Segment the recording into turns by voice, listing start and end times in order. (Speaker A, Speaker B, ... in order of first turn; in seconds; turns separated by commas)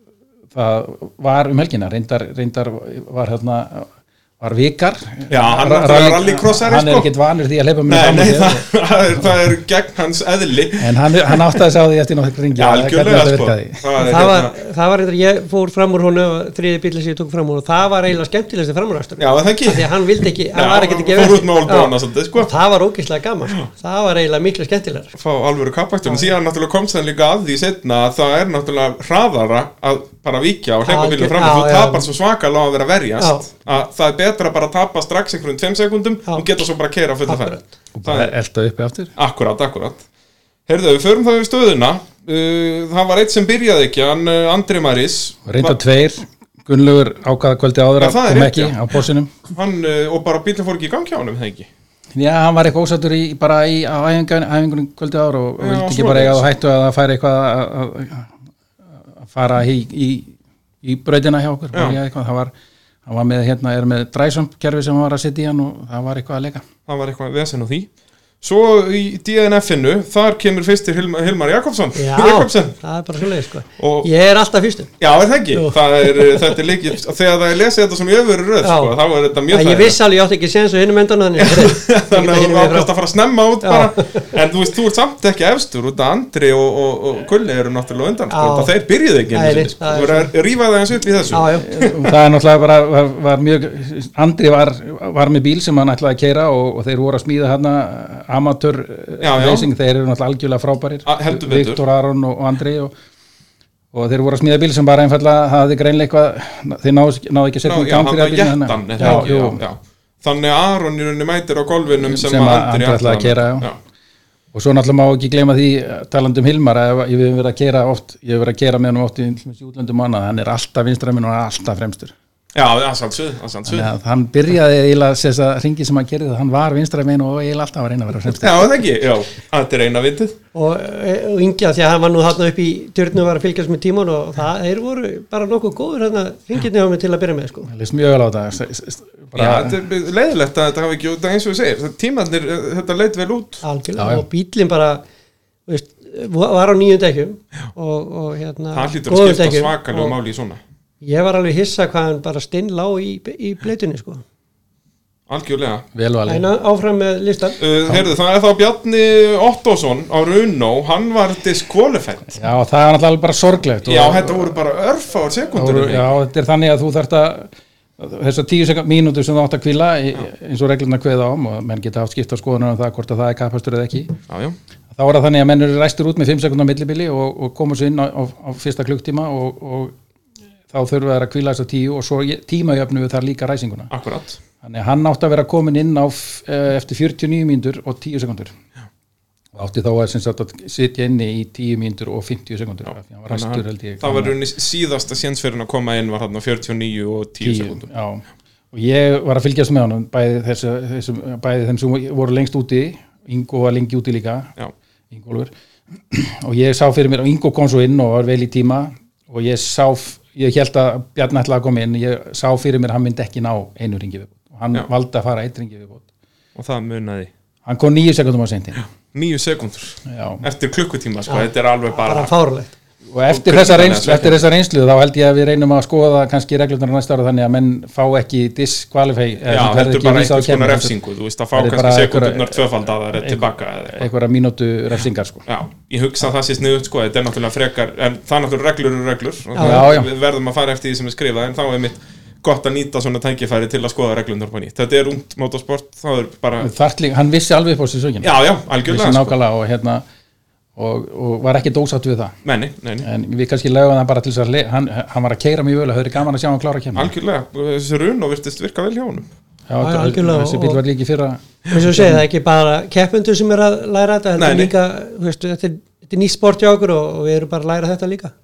Speaker A: 0.5-8.7, Speaker B: 5.3-7.1, Speaker B: 7.8-11.6, Speaker A: 10.8-13.8, Speaker B: 12.5-14.6, Speaker C: 14.0-25.1, Speaker B: 19.2-19.9, Speaker B: 20.5-22.5, Speaker B: 25.1-38.3, Speaker C: 30.9-32.1, Speaker C: 33.2-33.5, Speaker C: 37.3-37.7, Speaker A: 37.9-39.1, Speaker B: 39.2-40.0, Speaker B: 40.7-45.8, Speaker A: 45.5-49.3, Speaker B: 48.0-48.8, Speaker B: 49.5-51.7, Speaker A: 52.1-58.3, Speaker B: 55.6-56.5, Speaker A: 59.1-62.5, Speaker B: 61.7-62.0, Speaker A: 63.0-66.6, Speaker B: 66.9-67.9, Speaker B: 68.4-72.8, Speaker C: 71.9-74.9, Speaker B: 73.8-74.1, Speaker B: 75.0-80.0, Speaker C: 75.5-76.5, Speaker C: 78.6-78.9, Speaker C: 79.5-82.9, Speaker B: 81.4-92.1, Speaker C: 83.6-84.3, Speaker C: 88.3-88.7, Speaker C: 89.3-90.3, Speaker C: 91.3-91.8, Speaker A: 91.6-102.9, Speaker B: 99.2-99.7, Speaker B: 101.0-101.8, Speaker A: 103.9-109.6, Speaker B: 107.6-113.8, Speaker A: 112.0-113.7, Speaker A: 114.5-122.1, Speaker B: 122.5-123.9, Speaker A: 123.7-128.7, Speaker B: 128.3-130.3, Speaker C: 130.5-137.7, Speaker A: 137.7-139.8, Speaker B: 139.3-143.6, Speaker C: 143.6-145.0, Speaker A: 144.0-144.2, Speaker C: 145.7-150.2, Speaker B: 148.7-150.6, Speaker C: 151.0-154.2, Speaker B: 155.3-155.8, Speaker A: 155.9-156.4, Speaker C: 156.3-157.6, Speaker B: 157.6-162.4, Speaker A: 162.3-164.6, Speaker B: 163.8-166.1, Speaker A: 165.5-174.2, Speaker B: 174.3-174.6, Speaker A: 174.9-179.9, Speaker A: 180.7-183.9, Speaker B: 183.9-184.4, Speaker A: 184.6-188.5, Speaker A: 189.5-194.3, Speaker B: 193.3-197.8, Speaker A: 197.4-204.5, Speaker A: 205.1-216.1, Speaker B: 216.5-217.3, Speaker A: 217.6-218.8, Speaker B: 218.8-222.3, Speaker A: 220.1-220.4, Speaker C: 221.3-222.7, Speaker A: 223.1-230.9, Speaker B: 223.3-224.4, Speaker B: 229.4-234.1, Speaker A: 231.5-235.4, Speaker B: 235.5-246.7, Speaker C: 239.5-239.9, Speaker A: 239.6-240.1, Speaker A: 246.6-250.0, Speaker B: 248.2-249.3, Speaker A: 250.8-252.4, Speaker B: 252.4-253.1, Speaker A: 253.0-257.1, Speaker B: 256.9-259.3, Speaker A: 259.7-262.2, Speaker C: 259.8-260.8, Speaker C: 261.7-268.3, Speaker B: 264.4-264.7